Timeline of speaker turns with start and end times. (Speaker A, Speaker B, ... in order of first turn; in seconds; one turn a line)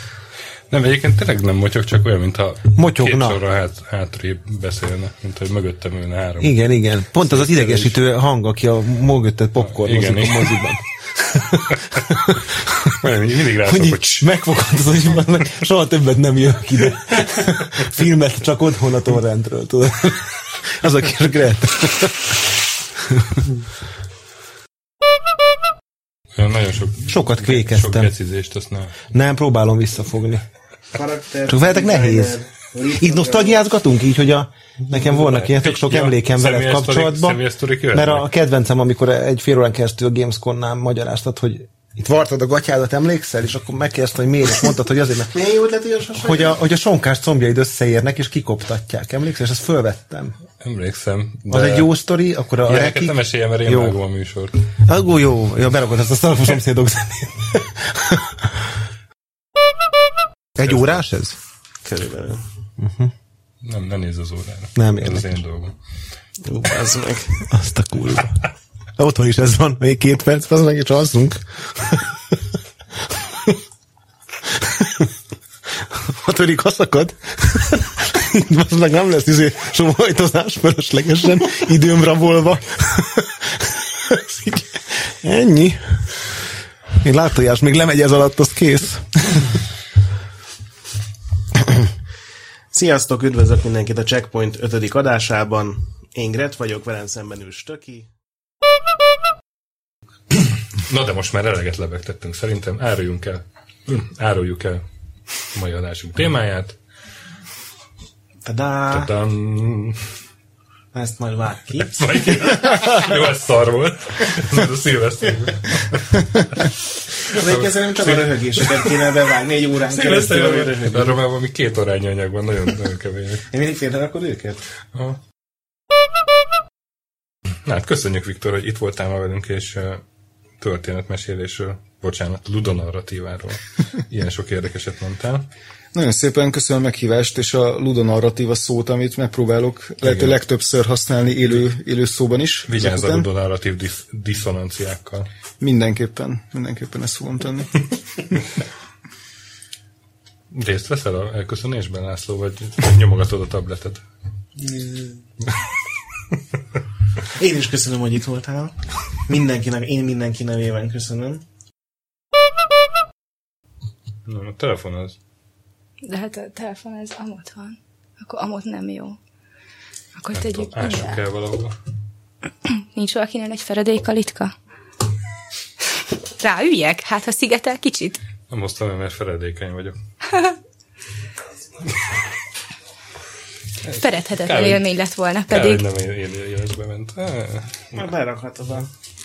Speaker A: 0.7-6.6
Speaker B: 2.8-3.4
Speaker B: 6.4-12.7
Speaker A: 7.2-8.0
Speaker A: 9.6-10.6
Speaker A: 13.0-14.2
Speaker B: 13.3-22.5
Speaker B: 23.1-23.4
Speaker A: 26.4-28.9
Speaker B: 27.1-28.1
Speaker B: 29.1-30.4
Speaker C: 30.9-33.6
Speaker B: 31.5-32.4
Speaker B: 33.0-45.4
Speaker A: 35.3-38.3
Speaker C: 45.3-46.6
Speaker B: 46.1-50.3
Speaker A: 50.6-51.9
Speaker B: 51.5-54.0
Speaker A: 52.6-54.5
Speaker B: 54.8-58.6
Speaker B: 60.5-61.4
Speaker C: 61.8-62.4
Speaker B: 62.8-63.1
Speaker A: 63.6-65.7
Speaker B: 64.8-65.4
Speaker C: 66.4-67.4
Speaker B: 67.5-68.4
Speaker B: 69.0-72.1
Speaker B: 74.6-75.1
Speaker B: 75.9-86.3
Speaker B: 87.0-89.4
Speaker C: 92.7-98.1
Speaker A: 100.4-104.8
Speaker A: 105.5-106.8
Speaker C: 108.4-109.1
Speaker A: 108.9-110.1
Speaker C: 110.9-112.7
Speaker A: 111.9-116.2
Speaker C: 117.3-121.2
Speaker A: 117.3-118.9
Speaker A: 119.9-123.5
Speaker C: 123.5-124.6
Speaker A: 124.9-125.2
Speaker A: 127.6-130.0
Speaker A: 130.6-135.5
Speaker D: 135.9-143.3
Speaker A: 140.0-140.4
Speaker A: 142.7-145.3
Speaker D: 145.6-147.8
Speaker A: 150.5-154.0
Speaker C: 154.6-155.2
Speaker C: 157.3-158.8
Speaker C: 159.3-161.4
Speaker A: 164.2-165.2
Speaker E: 166.0-169.2
Speaker E: 170.2-171.2
Speaker A: 170.3-171.8
Speaker E: 172.9-174.5
Speaker E: 176.4-178.2
Speaker A: 178.5-179.9
Speaker A: 183.9-184.9
Speaker E: 184.0-185.8
Speaker A: 185.5-188.0
Speaker C: 187.9-188.9